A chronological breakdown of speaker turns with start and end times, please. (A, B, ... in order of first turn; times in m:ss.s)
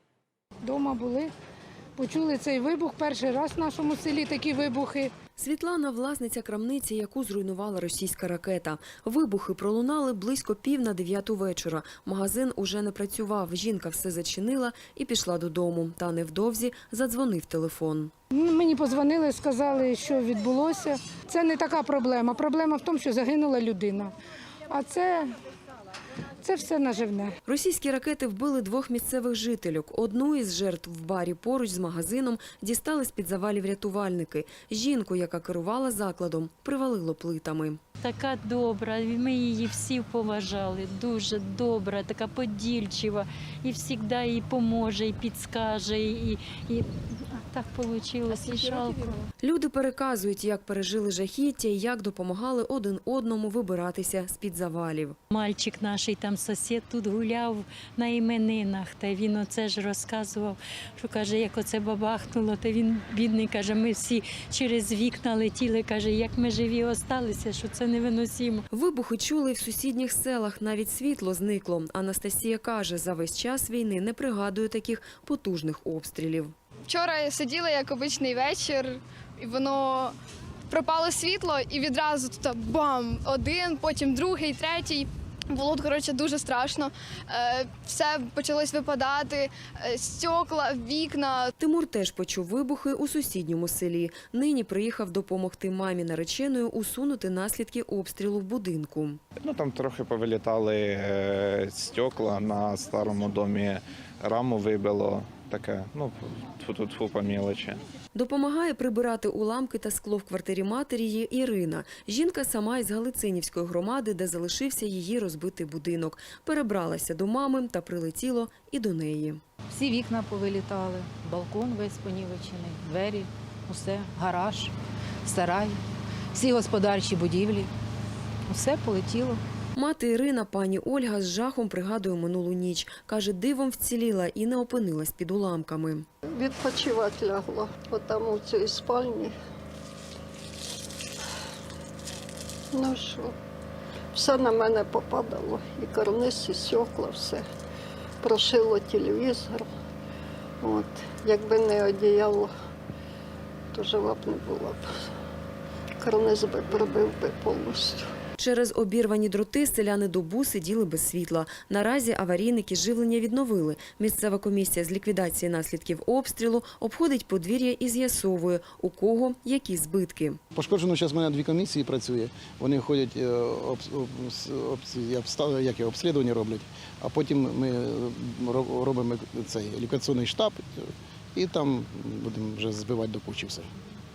0:00.6-0:01.3 A
0:02.0-0:05.1 A
0:05.4-0:18.1 B
0:18.3-0:24.1 A
0:24.7-0:25.3 A
0:26.4-0:27.4 A
0:27.5-0:37.8 B
0:38.0-0:49.0 C
0:48.3-0:49.2 A
0:49.4-0:55.2 B
0:55.4-1:08.6 C
0:55.6-0:56.2 D
0:56.8-0:57.1 D
0:59.3-1:00.5 D
1:01.3-1:02.8 D
1:03.5-1:07.9 D
1:08.7-1:16.5 B
1:16.9-1:20.1 E
1:20.7-1:31.5 E
1:31.6-1:39.2 B
1:39.4-1:47.8 D
1:48.1-1:59.4 B
1:59.7-2:05.8 F
2:06.3-2:07.7 F
2:08.5-2:09.4 F
2:09.8-2:16.1 B
2:16.3-2:19.3 G
2:22.8-2:23.3 G
2:24.1-2:27.4 G
2:28.2-2:29.7 G
2:30.6-2:32.5 G
2:33.7-2:34.8 G
2:36.0-2:38.0 G
2:38.4-2:50.4 B
2:50.6-3:03.7 H